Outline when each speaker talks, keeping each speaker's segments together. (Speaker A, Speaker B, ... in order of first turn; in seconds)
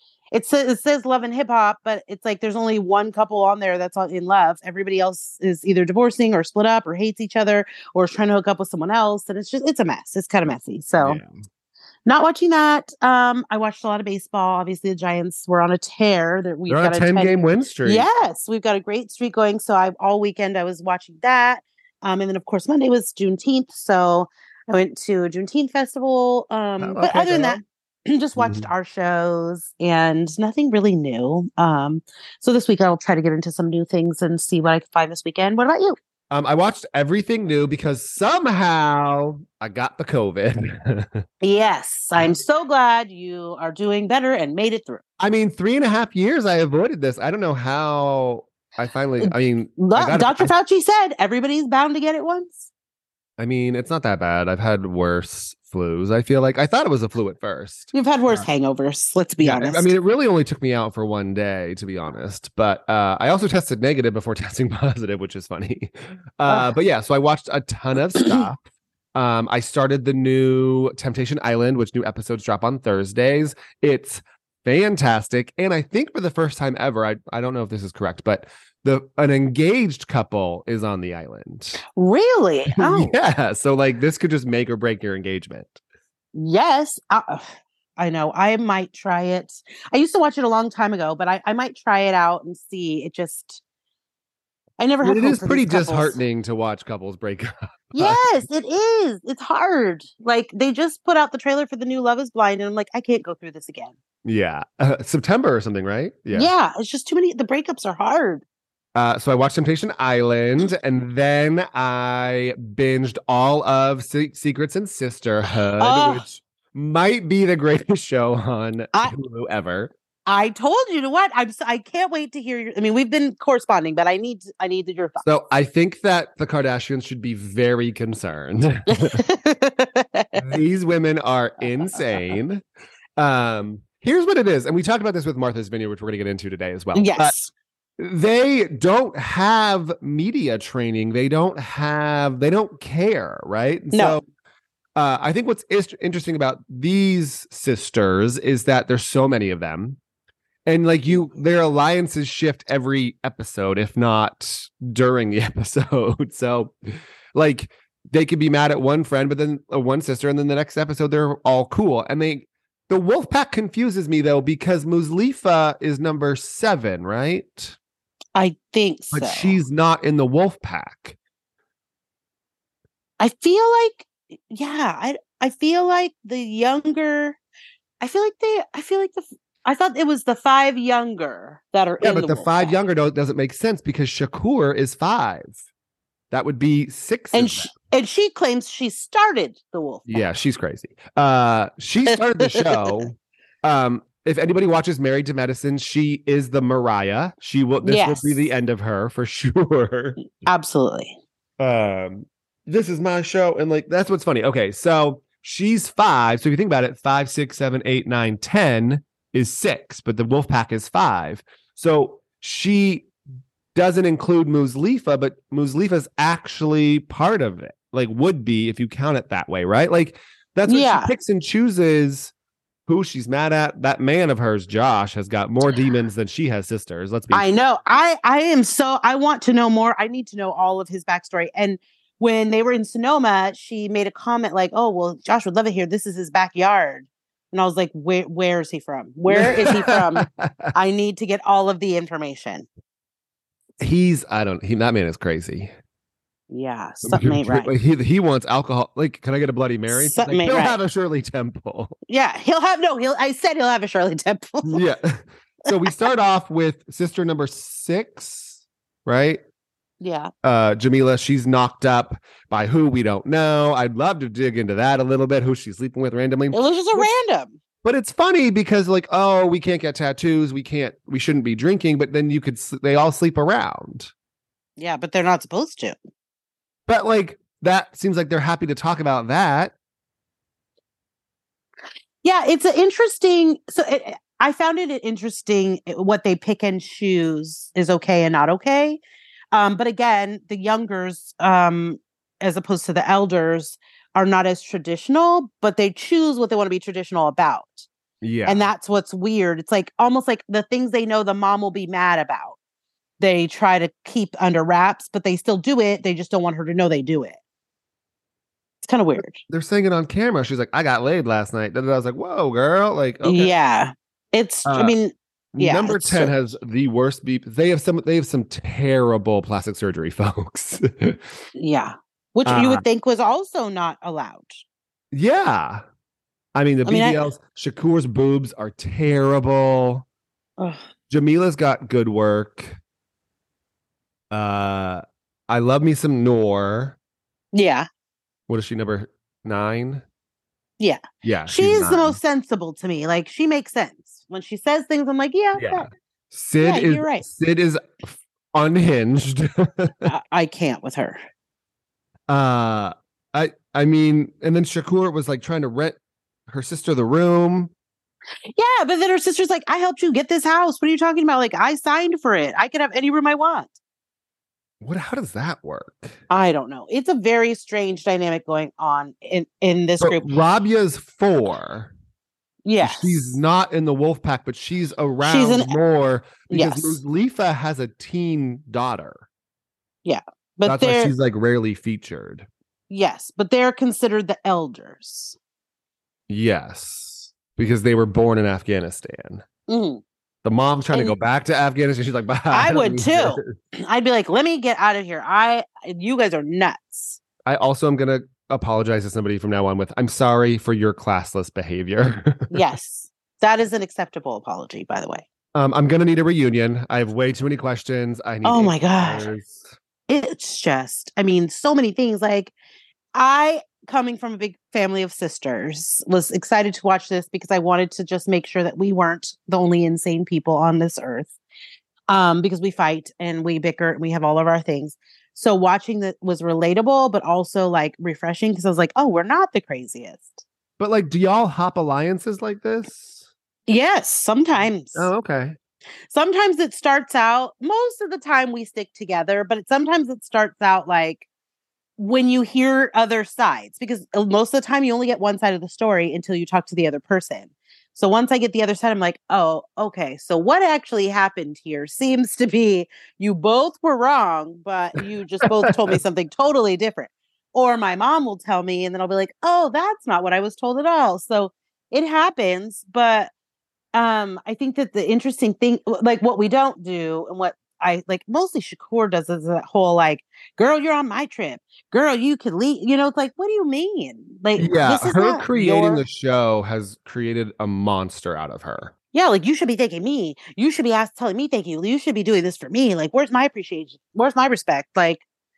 Speaker A: 0.3-11.2, 12.1-36.0, 41.4-45.0, 49.2-52.7, 57.9-59.9, 68.2-68.5, 82.0-83.2, 86.3-87.4, 88.0-93.6, 94.8-96.2, 98.0-104.0, 106.3-108.4, 115.8-116.3, 120.3-125.2, 128.9-130.5, 132.0-132.2, 136.9-137.5, 143.9-144.2, 168.4-169.6, 173.2-177.4, 178.0-182.8, 187.3-190.2, 192.1-193.1, 197.8-198.5, 200.4-201.2, 220.7-221.1, 227.3-242.7, 246.5-247.7, 249.9-250.8, 252.1-254.8, 260.0-260.3, 266.5-267.6, 274.8-276.0, 282.2-289.0, 289.5-297.9, 298.5-302.6, 303.2-307.4, 308.8-309.4, 313.2-316.4, 321.6-324.6, 326.9-327.2, 337.5-337.9, 340.8-345.9, 346.6-347.3, 350.1-351.2, 358.6-363.7, 366.3-370.3, 372.6-373.3, 375.2-375.8, 376.5-377.0, 380.1-381.1, 382.9-385.4, 389.7-390.0, 390.9-391.2, 392.5-397.2, 402.5-405.3, 408.4-409.3, 410.1-412.5, 413.1-421.4, 422.1-430.4, 433.7-435.1, 436.1-441.2, 442.0-463.3, 463.9-476.0, 479.1-485.2
Speaker B: 11.0-11.3, 16.7-18.1, 26.8-27.6, 28.4-28.7, 36.3-41.2, 45.2-50.5, 53.4-58.5, 59.4-68.6, 69.2-81.8, 82.8-85.8, 95.0-98.2, 104.2-106.5, 109.0-119.9, 125.2-129.2, 130.4-132.6, 133.2-137.3, 138.0-144.2, 145.0-150.0, 150.7-156.7, 157.3-167.8, 169.1-171.2, 182.0-185.6, 186.3-187.7, 190.1-200.2, 201.6-213.1, 213.8-222.3, 222.9-227.5, 239.3-240.7, 243.8-245.7, 247.1-251.9, 254.6-259.4, 260.4-267.1, 267.8-274.1, 276.9-279.7, 298.2-298.7, 309.5-313.6, 314.7-314.9, 315.6-321.4, 322.4-322.8, 325.1-325.8, 326.6-330.1, 331.1-332.8, 334.3-337.0, 338.5-340.0, 341.2-342.2, 345.6-350.1, 352.3-357.7, 364.8-366.2, 370.0-371.9, 372.8-379.2, 380.6-382.5, 386.3-389.4, 390.4-393.5, 397.4-402.6, 405.6-409.7, 430.8-433.3, 434.9-435.6, 455.4-455.9, 474.6-478.9